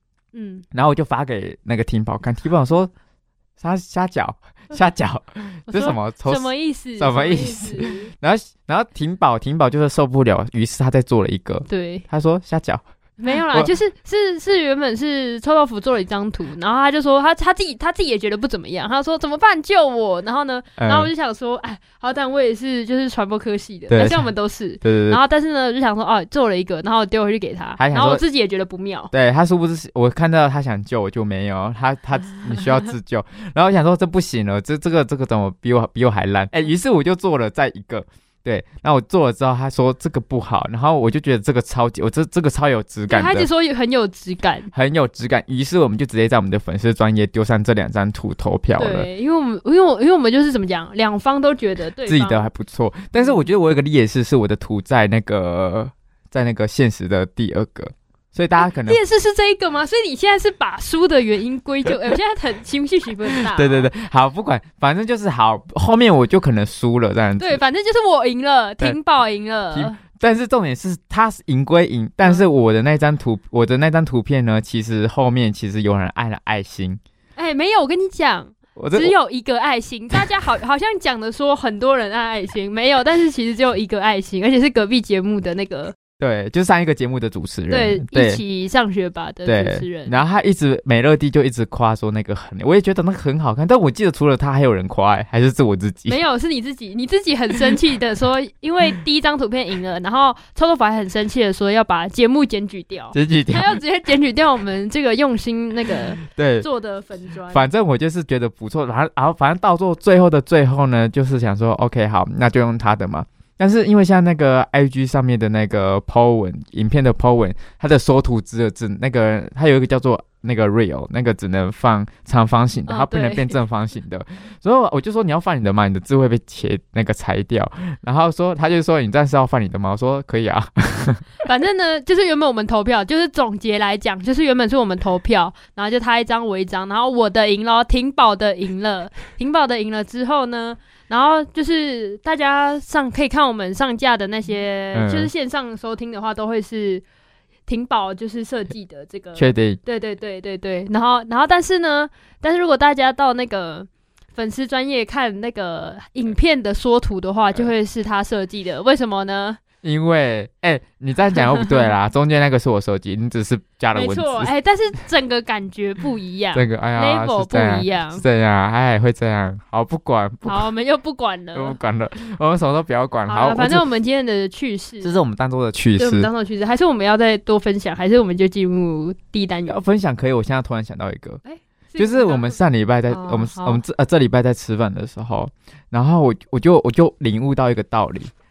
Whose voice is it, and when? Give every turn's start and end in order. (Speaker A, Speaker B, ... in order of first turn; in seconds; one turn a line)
Speaker A: 0.3-0.6
Speaker B: 0.7-2.9
Speaker B: 3.6-12.8
Speaker A: 5.7-8.1
Speaker A: 11.7-12.0
Speaker A: 13.2-29.1
Speaker B: 13.3-13.7
Speaker B: 20.8-21.1
Speaker B: 23.9-25.2
Speaker B: 27.8-28.2
Speaker B: 29.1-43.5
Speaker A: 43.1-44.7
Speaker B: 44.7-49.1
Speaker A: 48.8-52.5
Speaker B: 52.0-59.0
Speaker A: 58.6-63.9
Speaker B: 63.3-67.6
Speaker A: 67.4-70.0
Speaker B: 69.7-77.0
Speaker A: 77.3-85.9
Speaker B: 78.8-79.1
Speaker B: 86.2-88.4
Speaker A: 87.7-90.2
Speaker B: 89.5-96.2
Speaker A: 96.1-107.7
Speaker B: 103.1-103.8
Speaker B: 106.2-106.7
Speaker B: 107.5-131.3
Speaker A: 122.9-123.5
Speaker A: 131.4-147.0
Speaker B: 144.9-145.3
Speaker A: 147.7-159.6
Speaker B: 149.3-149.8
Speaker B: 159.8-164.5
Speaker A: 163.9-168.2
Speaker B: 166.5-170.7
Speaker A: 170.4-171.8
Speaker B: 171.5-173.9
Speaker A: 173.3-175.1
Speaker B: 175.0-176.3
Speaker A: 175.9-179.8
Speaker B: 179.7-181.4
Speaker A: 181.4-183.8
Speaker B: 182.0-188.3